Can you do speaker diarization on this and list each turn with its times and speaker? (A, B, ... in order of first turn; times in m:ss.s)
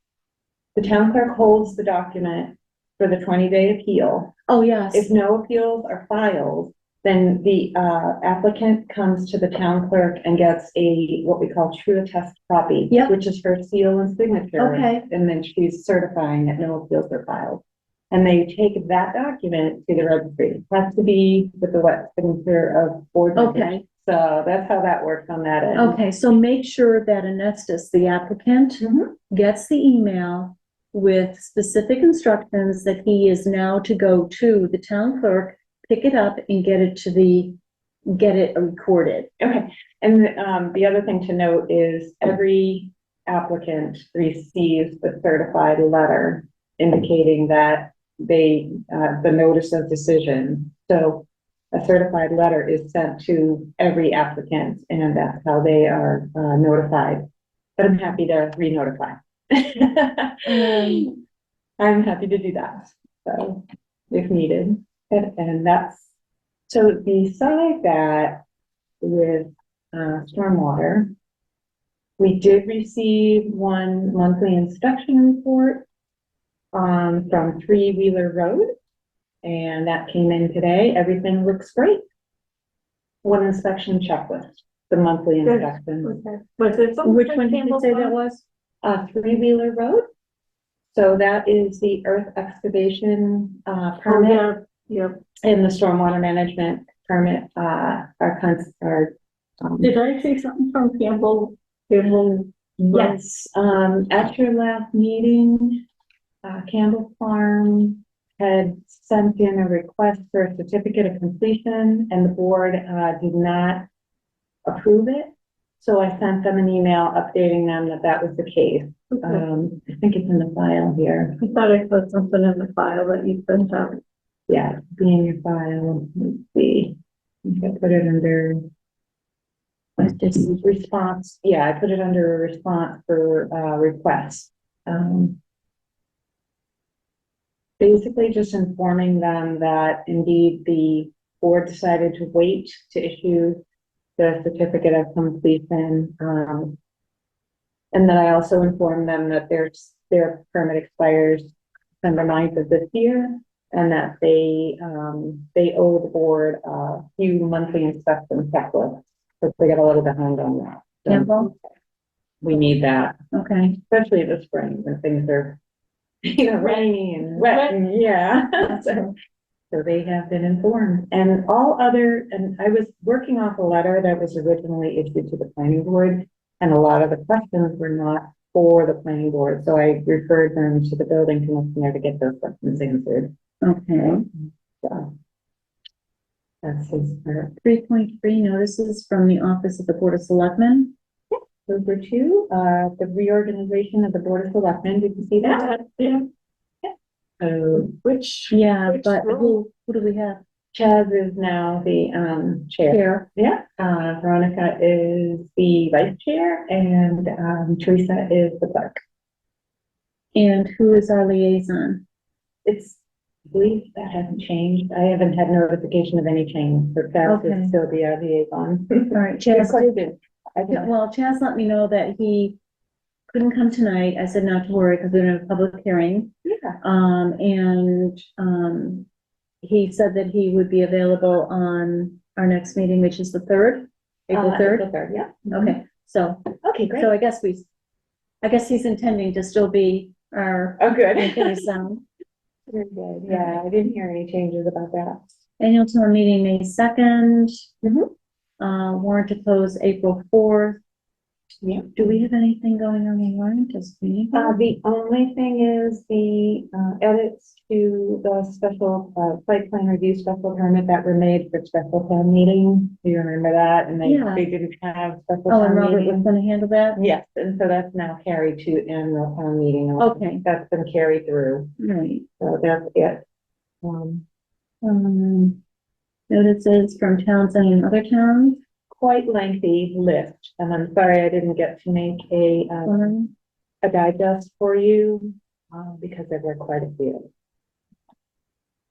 0:00.8-0:04.3 A
0:04.5-0:05.1 B
0:04.9-0:26.0 A
0:14.6-0:15.1 B
0:23.4-0:23.8 B
0:25.8-0:37.6 B
0:28.8-0:29.1 A
0:38.1-0:39.3 B
0:39.4-0:57.2 A
0:57.8-1:01.2 A
1:00.5-1:01.1 B
1:01.8-1:06.1 A
1:06.7-1:08.4 A
1:09.0-1:11.1 A
1:12.2-1:15.9 A
1:16.7-1:18.7 A
1:19.4-1:22.0 A
1:23.2-1:26.2 A
1:25.4-1:28.2 C
1:27.0-1:28.4 B
1:28.8-1:30.1 A
1:30.9-1:34.5 A
1:34.0-1:35.2 C
1:35.4-1:39.9 A
1:39.8-1:43.2 C
1:42.8-1:45.8 A
1:46.4-1:53.8 A
1:54.7-2:01.4 A
1:59.1-1:59.4 C
2:01.4-2:04.0 C
2:04.5-2:08.7 A
2:10.0-2:10.6 B
2:10.5-2:15.4 A
2:17.8-2:23.6 A
2:24.2-2:26.8 A
2:27.9-2:31.5 A
2:32.0-2:41.7 A
2:41.1-2:41.5 B
2:42.4-2:43.2 A
2:43.3-2:43.8 B
2:43.8-2:45.6 A
2:46.3-2:49.1 A
2:49.7-3:03.3 A
3:03.6-3:04.2 B
3:04.8-3:05.1 A
3:06.6-3:07.6 A
3:07.6-3:10.9 B
3:11.7-3:15.7 A
3:15.4-3:16.3 C
3:16.8-3:18.6 A
3:18.5-3:20.4 B
3:18.9-3:19.6 C
3:20.7-3:29.0 A
3:22.9-3:23.3 B
3:30.4-3:32.0 B
3:32.6-3:40.9 A
3:37.2-3:37.8 B
3:39.1-3:39.9 B
3:40.7-3:42.6 B
3:43.3-3:46.3 B
3:46.4-3:46.8 A
3:46.8-3:49.1 B
3:49.6-3:54.9 B
3:54.3-3:55.8 A
3:55.5-3:56.4 B
3:56.6-3:57.1 A
3:57.0-3:57.7 B
3:58.4-4:02.0 B
4:00.8-4:01.7 A
4:02.7-4:05.3 A
4:03.3-4:03.6 B
4:05.6-4:07.5 B
4:07.8-4:08.1 A
4:08.6-4:10.8 B
4:11.6-4:12.2 A
4:12.0-4:14.6 B
4:14.3-4:26.3 A
4:24.0-4:24.4 B
4:25.5-4:27.0 B
4:27.0-4:31.7 A
4:30.0-4:30.4 B
4:31.8-4:32.3 B
4:32.4-4:33.2 A
4:33.8-4:34.2 A
4:34.8-4:35.6 B
4:36.3-4:38.6 B
4:38.9-4:43.1 A
4:42.8-4:43.3 B
4:43.8-4:47.3 A